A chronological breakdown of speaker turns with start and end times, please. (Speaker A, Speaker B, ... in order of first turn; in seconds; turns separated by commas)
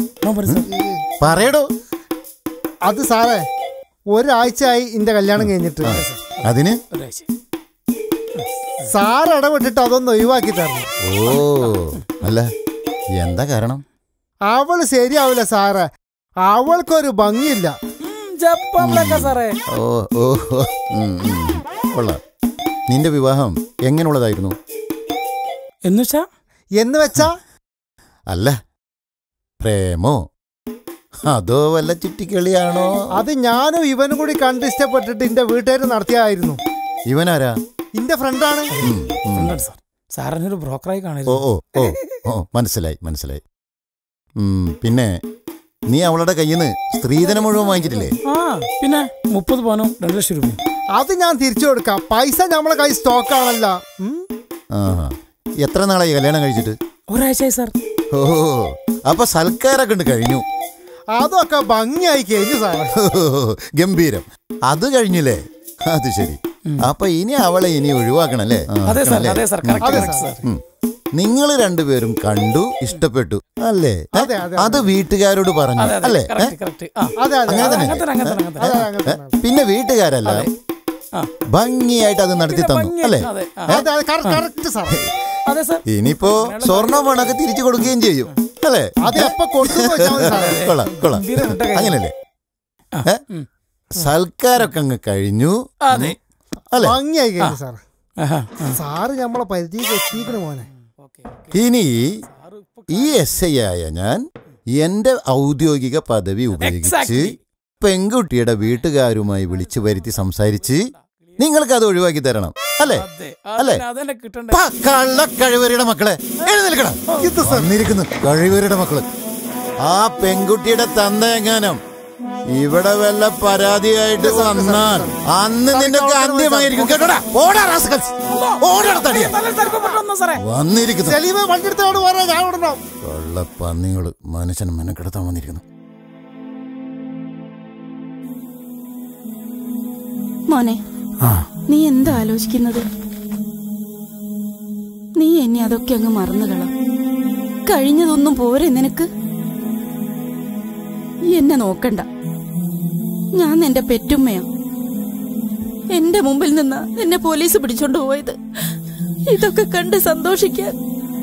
Speaker A: 0.2-0.7, Speaker B: 0.6-1.0, Speaker C: 1.2-1.7, Speaker B: 2.9-3.5, Speaker B: 4.1-6.0, Speaker C: 5.8-6.8, Speaker A: 5.8-7.3, Speaker B: 8.9-10.9, Speaker C: 11.0-12.5, Speaker A: 11.3-12.0, Speaker C: 13.2-13.8, Speaker B: 14.5-15.9, Speaker B: 16.5-17.8, Speaker A: 18.1-19.6, Speaker C: 18.8-22.2, Speaker C: 22.9-24.6, Speaker A: 25.9-26.3, Speaker B: 26.8-27.4, Speaker C: 29.6-30.2, Speaker C: 31.3-33.0, Speaker B: 33.1-36.6, Speaker C: 37.1-37.6, Speaker B: 38.0-38.7, Speaker A: 38.7-41.5, Speaker C: 38.8-39.6, Speaker C: 41.3-43.4, Speaker C: 44.4-45.2, Speaker C: 45.9-48.1, Speaker A: 47.3-50.6, Speaker B: 51.0-54.2, Speaker C: 54.8-56.8, Speaker A: 57.1-57.7, Speaker C: 58.1-60.5, Speaker B: 61.2-62.9, Speaker C: 63.0-70.6, Speaker A: 68.9-70.4, Speaker B: 69.8-70.4, Speaker C: 71.2-76.5, Speaker B: 74.1-74.9, Speaker A: 75.8-78.9, Speaker B: 77.2-77.9, Speaker C: 77.5-78.4, Speaker B: 78.6-79.4, Speaker C: 79.1-80.5, Speaker A: 80.2-80.5, Speaker C: 81.5-83.8, Speaker A: 82.5-84.4, Speaker B: 83.7-85.0, Speaker A: 85.5-87.9, Speaker C: 85.9-92.1, Speaker B: 89.0-90.7, Speaker A: 89.6-92.0, Speaker A: 93.0-93.5, Speaker C: 93.9-96.2, Speaker A: 95.8-96.2, Speaker C: 96.7-97.0, Speaker B: 96.8-97.8, Speaker A: 98.2-98.8, Speaker B: 98.8-100.7, Speaker A: 101.0-101.5, Speaker C: 101.5-102.1, Speaker A: 102.4-103.4, Speaker C: 102.9-104.2, Speaker C: 104.8-113.1, Speaker A: 106.6-107.4, Speaker A: 109.5-111.2, Speaker A: 112.9-114.6, Speaker C: 113.6-113.8, Speaker C: 114.5-119.1, Speaker B: 117.2-117.7, Speaker C: 119.8-121.8, Speaker C: 122.6-129.4, Speaker B: 124.2-125.2, Speaker B: 125.7-127.2, Speaker A: 128.3-130.4, Speaker C: 130.4-131.2, Speaker B: 131.1-132.8, Speaker C: 133.0-135.6, Speaker D: 140.5-140.8, Speaker D: 141.7-142.9, Speaker D: 145.2-146.7, Speaker D: 147.7-149.1, Speaker D: 151.3-152.1, Speaker D: 153.4-154.4, Speaker D: 155.9-158.4, Speaker D: 159.3-160.8